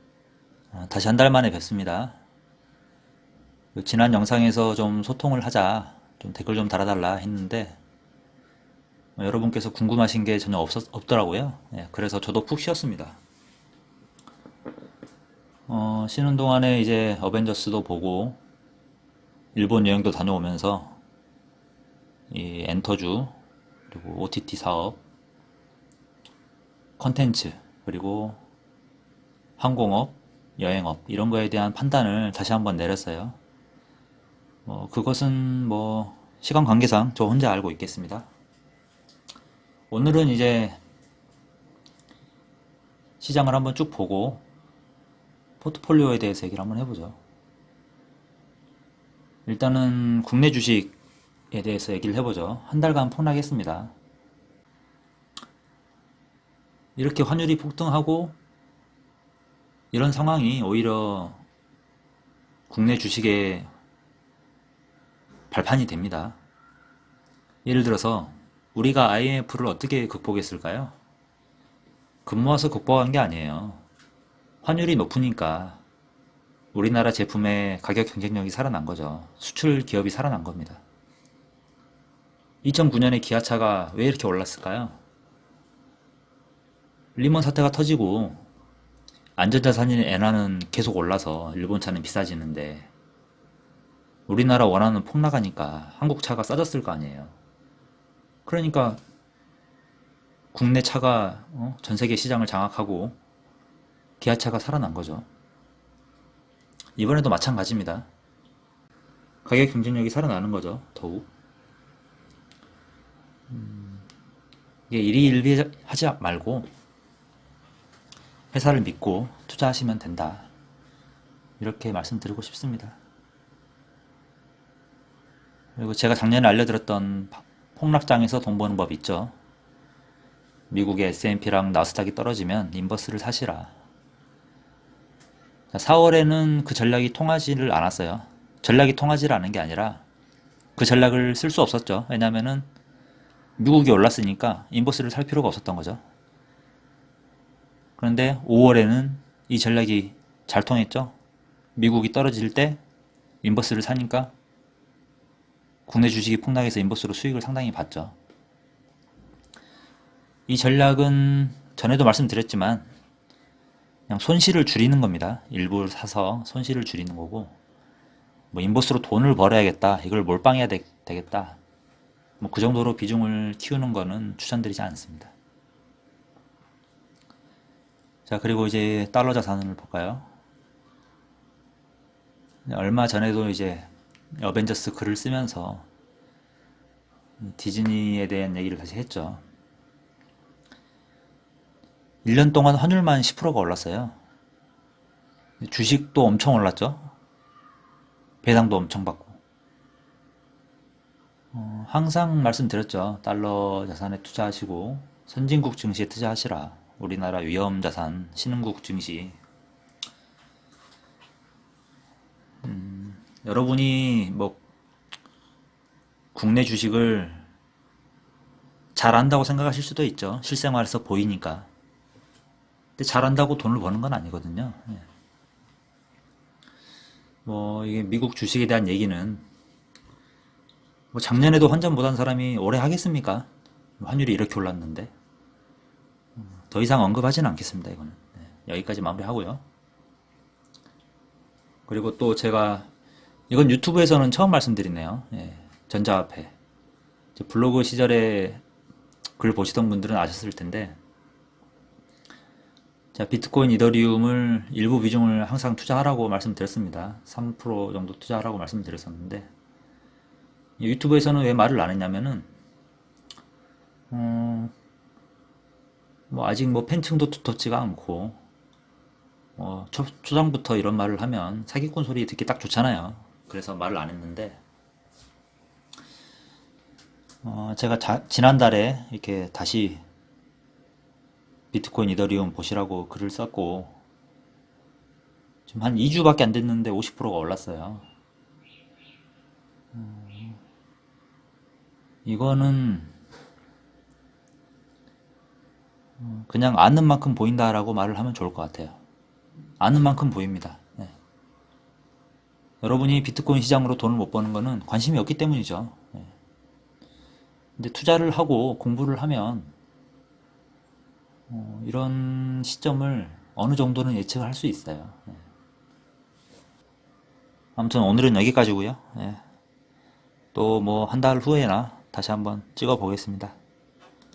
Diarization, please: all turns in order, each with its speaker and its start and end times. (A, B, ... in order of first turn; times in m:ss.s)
0:00.7-0:02.2 A
0:03.8-0:07.8 A
0:09.2-0:13.2 A
0:15.7-0:18.4 A
0:19.6-0:21.0 A
0:22.3-0:23.4 A
0:23.9-0:25.0 A
0:27.0-0:28.4 A
0:29.6-0:33.4 A
0:34.7-0:38.3 A
0:39.9-0:40.8 A
0:43.2-0:44.4 A
0:45.6-0:47.2 A
0:49.5-0:51.0 A
0:51.5-0:53.9 A
0:57.0-0:58.4 A
0:59.9-1:01.4 A
1:02.7-1:03.7 A
1:05.5-1:06.4 A
1:07.6-1:11.0 A
1:12.3-1:13.8 A
1:14.6-1:15.8 A
1:16.7-1:20.8 A
1:22.6-1:25.0 A
1:27.2-1:28.4 A
1:29.4-1:32.9 A
1:34.3-1:37.4 A
1:38.5-1:39.0 A
1:40.5-1:43.2 A
1:44.2-1:45.3 A
1:47.0-1:48.1 A
1:49.4-1:51.3 A
1:53.5-1:54.0 A
1:54.9-1:56.7 A
1:58.5-2:00.5 A
2:01.6-2:03.0 A
2:05.8-2:09.4 A
2:10.7-2:13.7 A
2:15.7-2:20.0 A
2:20.8-2:22.7 A
2:23.6-2:26.0 A
2:28.0-2:31.2 A
2:31.8-2:32.8 A
2:33.4-2:34.3 A
2:35.9-2:38.2 A
2:40.5-2:42.9 A
2:44.1-2:47.6 A
2:48.5-2:51.6 A
2:52.4-2:55.3 A
2:58.3-3:00.3 A
3:02.7-3:05.9 A
3:07.4-3:09.4 A
3:12.2-3:14.2 A
3:15.6-3:17.1 A
3:18.4-3:19.4 A
3:21.5-3:29.4 A
3:32.6-3:34.6 A
3:36.4-3:37.4 A
3:39.0-3:41.7 A
3:43.0-3:45.1 A
3:47.4-3:49.4 A
3:51.1-3:53.5 A
3:54.0-3:55.1 A
3:56.5-3:59.6 A
4:01.9-4:02.9 A
4:03.5-4:06.5 A
4:07.4-4:08.6 A
4:09.4-4:11.0 A
4:13.1-4:19.5 A
4:20.8-4:22.5 A
4:24.1-4:24.7 A
4:26.3-4:28.4 A
4:29.6-4:34.6 A
4:37.4-4:40.0 A
4:41.7-4:44.0 A
4:45.7-4:48.1 A
4:49.9-4:50.6 A
4:52.2-4:53.1 A
4:56.2-4:59.0 A
4:59.8-5:01.1 A
5:02.8-5:06.3 A
5:07.8-5:09.7 A
5:11.5-5:15.4 A
5:17.8-5:19.4 A
5:20.5-5:23.6 A